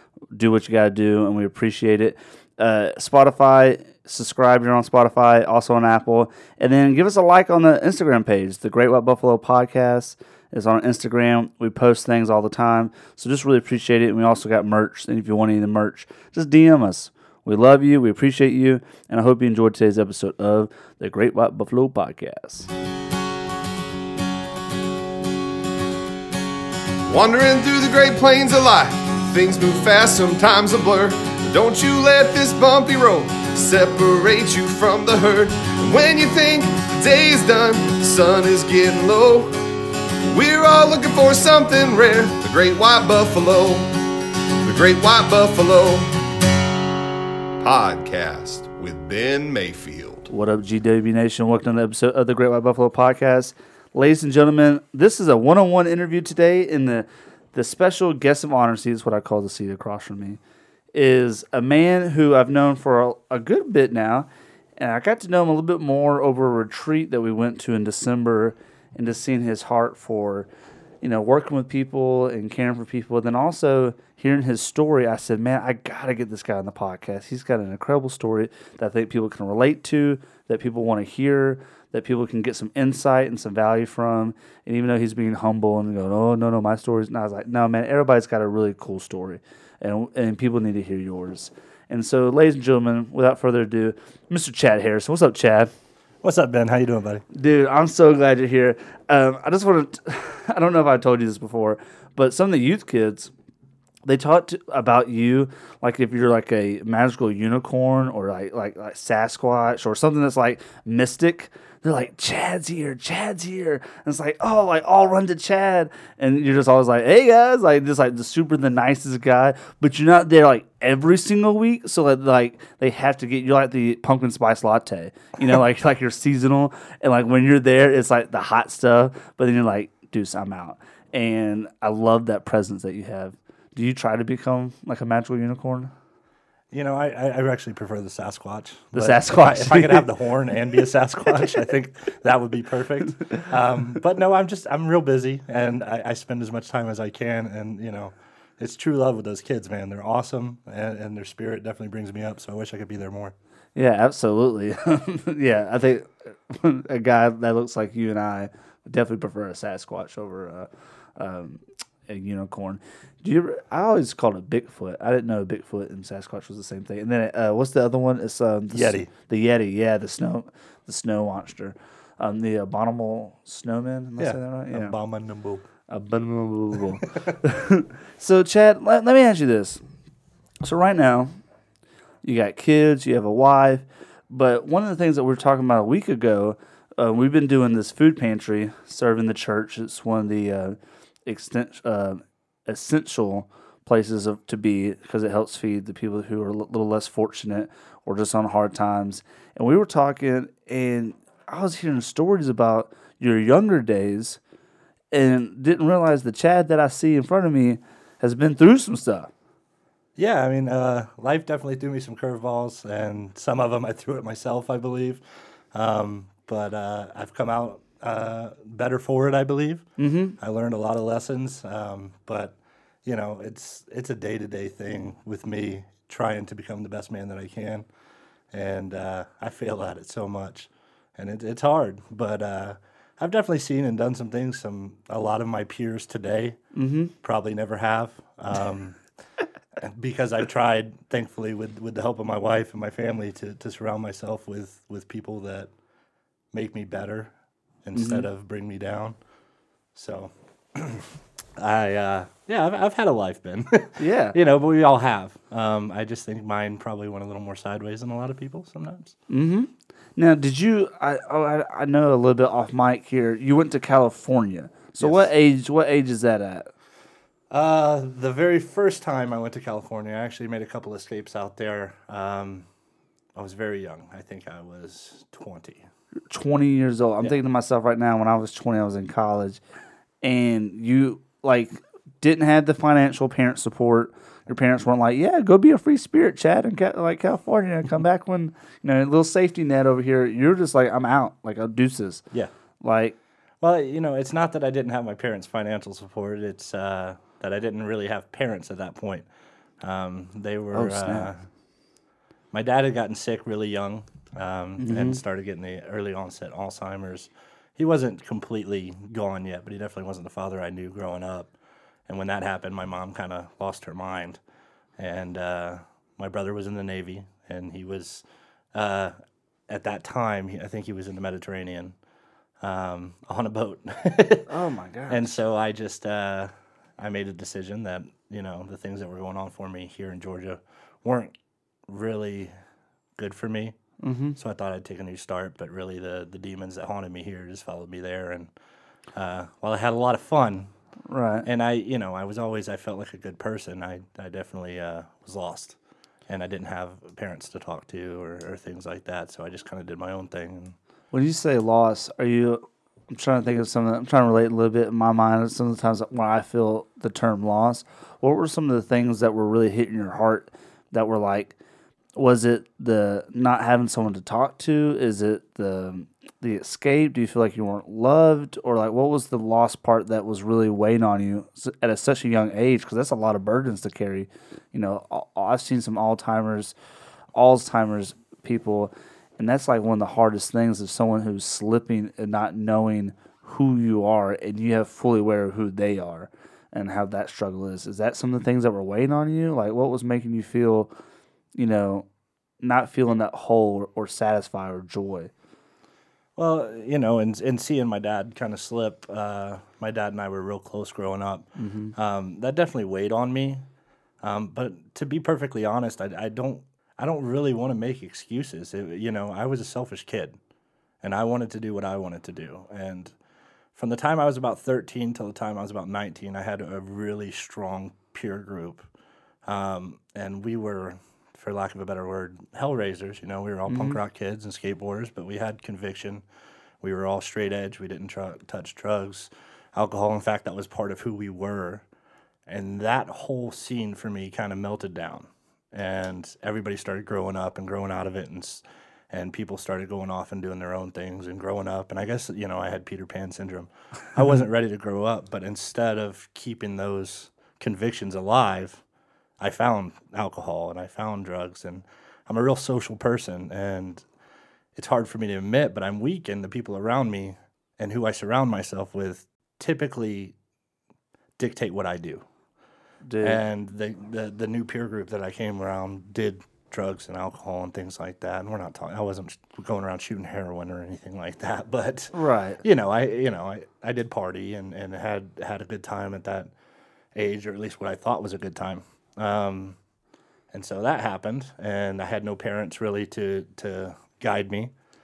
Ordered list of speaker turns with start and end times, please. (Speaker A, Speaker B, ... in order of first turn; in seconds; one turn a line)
Speaker A: 0.3-22.7
Speaker B: 27.1-39.6
Speaker B: 40.3-44.0
Speaker B: 44.6-46.2
Speaker B: 47.6-50.3
Speaker A: 50.3-60.4
Speaker A: 60.9-70.5
Speaker A: 71.0-95.7
Speaker C: 96.2-97.2
Speaker A: 97.3-103.3
Speaker A: 104.0-135.9
Speaker C: 136.7-153.3
Speaker A: 138.9-140.1
Speaker A: 153.8-175.0
Speaker C: 168.7-169.1
Speaker C: 174.2-175.7
Speaker A: 175.9-179.8
Speaker A: 180.6-181.4
Speaker A: 182.2-204.4
Speaker A: 205.1-209.3
Speaker C: 210.2-219.8
Speaker A: 220.0-220.4
Speaker C: 220.4-227.9
Speaker C: 228.5-236.6
Speaker A: 236.8-237.1
Speaker C: 237.2-239.0
Speaker C: 239.8-245.7
Speaker C: 246.5-247.3
Speaker C: 247.8-249.2
Speaker A: 247.9-248.3
Speaker C: 249.9-259.1
Speaker A: 254.0-254.4
Speaker A: 259.3-266.7
Speaker C: 265.0-265.3
Speaker C: 267.5-272.7
Speaker C: 273.4-275.8
Speaker A: 276.3-279.6
Speaker A: 280.2-292.2
Speaker A: 292.8-293.2
Speaker C: 293.6-299.3
Speaker C: 299.8-301.4
Speaker A: 300.7-301.3
Speaker C: 302.5-311.5
Speaker A: 304.8-305.2
Speaker C: 312.1-314.4
Speaker C: 315.0-319.1
Speaker C: 319.7-322.0
Speaker C: 322.6-324.5
Speaker A: 324.5-325.3
Speaker C: 325.1-331.3
Speaker C: 331.9-332.5
Speaker C: 333.2-333.8
Speaker A: 334.0-334.4
Speaker C: 334.4-338.5
Speaker C: 339.1-340.7
Speaker A: 341.1-341.5
Speaker C: 341.4-345.8
Speaker C: 346.3-350.8
Speaker A: 351.1-361.6
Speaker A: 362.2-376.8
Speaker A: 377.3-390.9
Speaker A: 391.6-392.1
Speaker A: 392.6-395.3
Speaker C: 396.4-403.6
Speaker A: 401.6-401.9
Speaker C: 404.2-410.4
Speaker C: 411.0-413.1
Speaker C: 413.8-418.9
Speaker C: 419.4-426.2
Speaker A: 423.7-424.0
Speaker C: 426.8-431.9
Speaker C: 432.5-448.8
Speaker C: 449.4-454.1
Speaker C: 454.8-460.4
Speaker C: 461.4-462.2
Speaker A: 463.1-463.4
Speaker C: 463.2-476.5
Speaker A: 472.1-472.6
Speaker C: 477.1-479.8
Speaker C: 480.5-484.7